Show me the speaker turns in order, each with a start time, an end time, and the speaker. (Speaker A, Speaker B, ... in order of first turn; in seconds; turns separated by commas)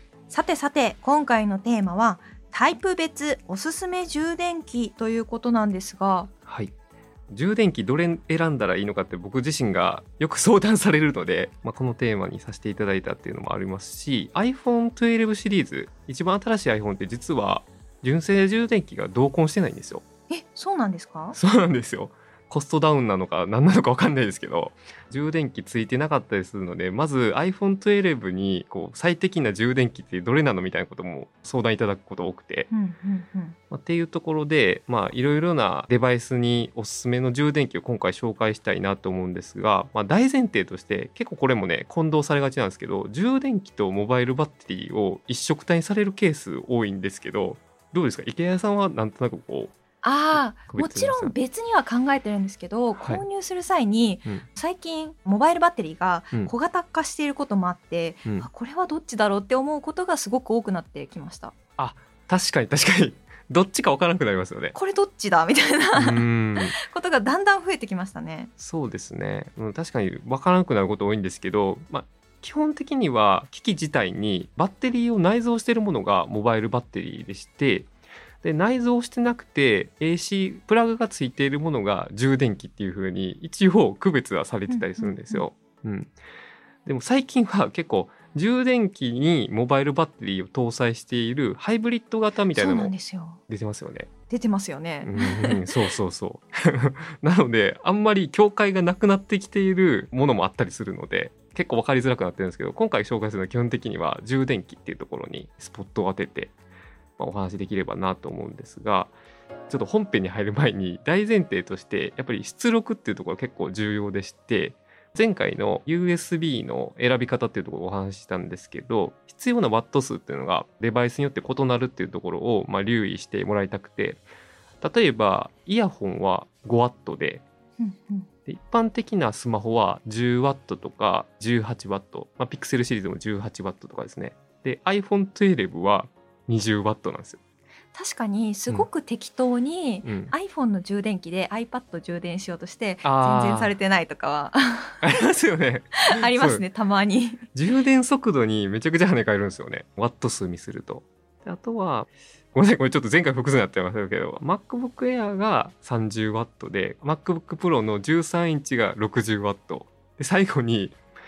Speaker A: 0.3-6.3, Speaker B: 6.5-6.7, Speaker B: 7.3-20.0, Speaker A: 20.3-21.4, Speaker B: 21.3-32.7, Speaker A: 32.7-33.6, Speaker B: 33.7-49.7, Speaker A: 50.0-61.5, Speaker B: 50.3-51.3, Speaker B: 53.0-53.2, Speaker B: 61.8-64.7, Speaker A: 64.7-68.5, Speaker B: 65.9-66.7, Speaker B: 68.6-77.9, Speaker B: 78.4-86.1, Speaker A: 84.7-85.4, Speaker B: 86.8-92.9, Speaker A: 92.5-93.4, Speaker B: 93.5-94.1, Speaker A: 94.3-95.9, Speaker B: 95.0-106.5, Speaker B: 107.2-109.1, Speaker B: 109.7-124.2, Speaker B: 124.8-127.4, Speaker A: 127.8-128.3, Speaker B: 128.5-137.4, Speaker A: 137.9-145.0, Speaker B: 140.0-140.3, Speaker B: 143.0-143.7, Speaker B: 145.0-146.6, Speaker A: 146.0-147.4, Speaker B: 147.5-161.0